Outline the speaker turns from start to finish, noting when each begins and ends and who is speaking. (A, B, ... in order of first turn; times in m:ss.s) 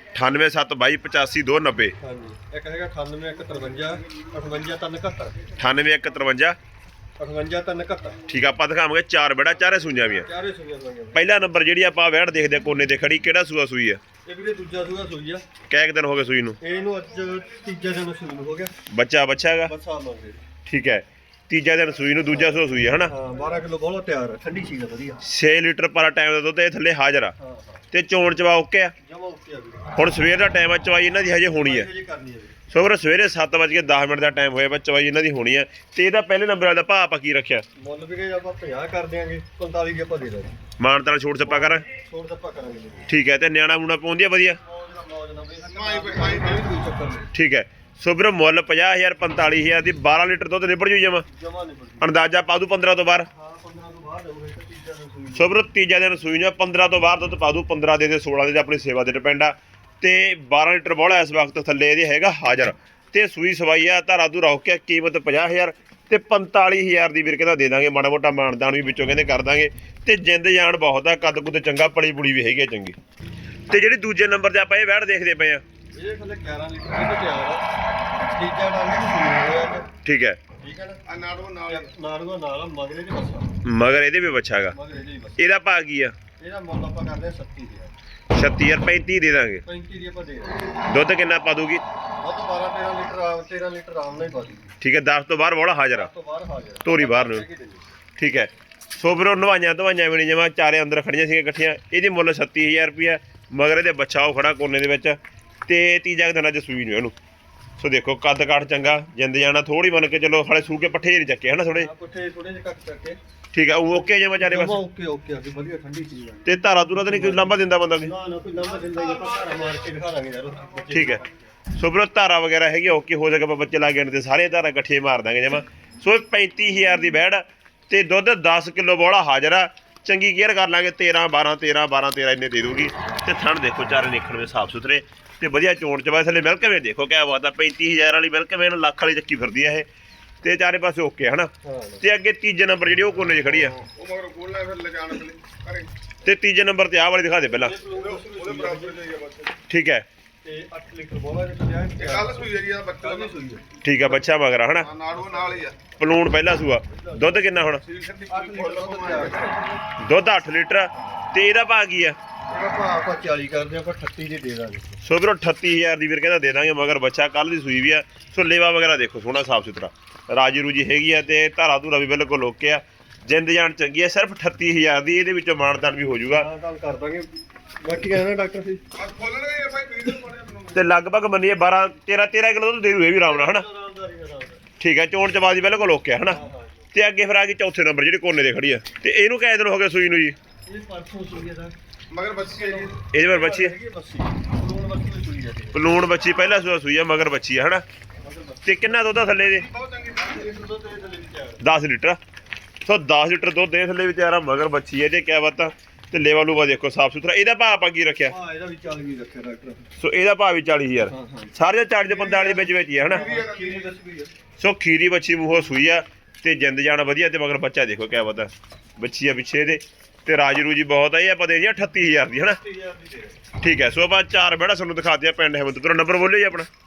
0:00.1-0:01.9 A
0:02.0-0:05.5 B
0:05.6-0:06.6 A
0:07.2-0:08.2 B
0:08.3-0:10.3 A
0:10.2-0:11.2 B
0:11.1-0:14.0 A
0:14.2-0:15.4 B
0:15.7-0:16.6 A
0:16.6-0:18.7 B
0:18.9-0:19.7 A
0:19.7-0:20.4 B
0:20.6-0:23.1 A
0:22.3-0:25.2 B
0:25.2-0:27.3 A
0:27.4-0:27.8 B
0:27.9-0:28.9 A
0:29.0-0:30.0 B
0:30.0-0:31.9 A
0:31.5-0:32.6 B
0:32.7-0:37.6 A
0:37.8-0:40.6 B
0:40.8-0:41.8 A
0:41.4-0:43.1 B
0:43.1-0:44.6 A
0:44.6-0:47.3 B
0:45.7-0:46.7 C
0:47.3-0:51.2 A
0:51.3-0:52.1 B
0:52.0-0:53.3 A
0:53.3-0:55.5 B
0:55.3-1:13.0 A
1:13.7-1:15.6 A
1:16.0-1:19.9 B
1:20.0-1:20.4 A
1:20.6-1:21.0 B
1:21.1-1:21.9 C
1:21.6-1:23.5 B
1:23.6-1:24.7 A
1:24.7-1:25.4 B
1:25.4-1:26.1 A
1:26.4-1:27.9 B
1:28.3-1:29.6 A
1:29.6-1:30.7 B
1:30.8-1:31.8 A
1:32.2-1:34.7 B
1:34.8-1:36.1 A
1:35.9-1:37.9 B
1:36.8-1:37.4 A
1:38.2-1:47.1 A
1:47.8-1:51.9 A
1:51.7-1:53.2 B
1:53.5-1:54.8 A
1:54.4-2:01.4 B
1:56.4-1:58.1 A
2:00.9-2:01.2 A
2:01.7-2:19.9 A
2:20.4-2:23.8 A
2:21.6-2:22.0 B
2:23.6-2:25.9 C
2:26.2-2:27.8 A
2:27.5-2:29.0 B
2:27.9-2:29.6 C
2:29.7-2:30.0 A
2:30.4-2:33.6 B
2:32.0-2:33.3 C
2:33.8-2:34.9 A
2:34.8-2:35.8 C
2:35.0-2:35.7 B
2:36.0-2:37.8 A
2:36.9-2:37.5 B
2:37.8-2:39.6 C
2:38.3-2:39.8 B
2:39.9-2:42.2 A
2:42.5-2:45.0 B
2:45.0-2:56.4 A
2:56.3-2:57.3 B
2:57.8-2:58.9 B
2:58.9-3:00.8 C
3:00.7-3:03.6 A
3:03.2-3:04.6 B
3:04.8-3:06.4 A
3:06.3-3:06.9 B
3:06.9-3:10.4 A
3:10.6-3:11.7 B
3:12.1-3:13.0 C
3:12.4-3:16.0 B
3:13.1-3:13.7 A
3:15.7-3:17.8 A
3:18.2-3:19.1 B
3:18.6-3:19.7 A
3:19.6-3:20.3 C
3:20.0-3:21.6 B
3:21.6-3:22.2 A
3:22.8-3:28.3 A
3:28.2-3:29.9 B
3:30.0-3:33.3 A
3:31.1-3:31.5 B
3:32.2-3:32.6 C
3:33.0-3:34.3 B
3:33.2-3:33.9 C
3:34.6-3:42.6 A
3:42.4-3:43.4 B
3:43.6-3:46.7 A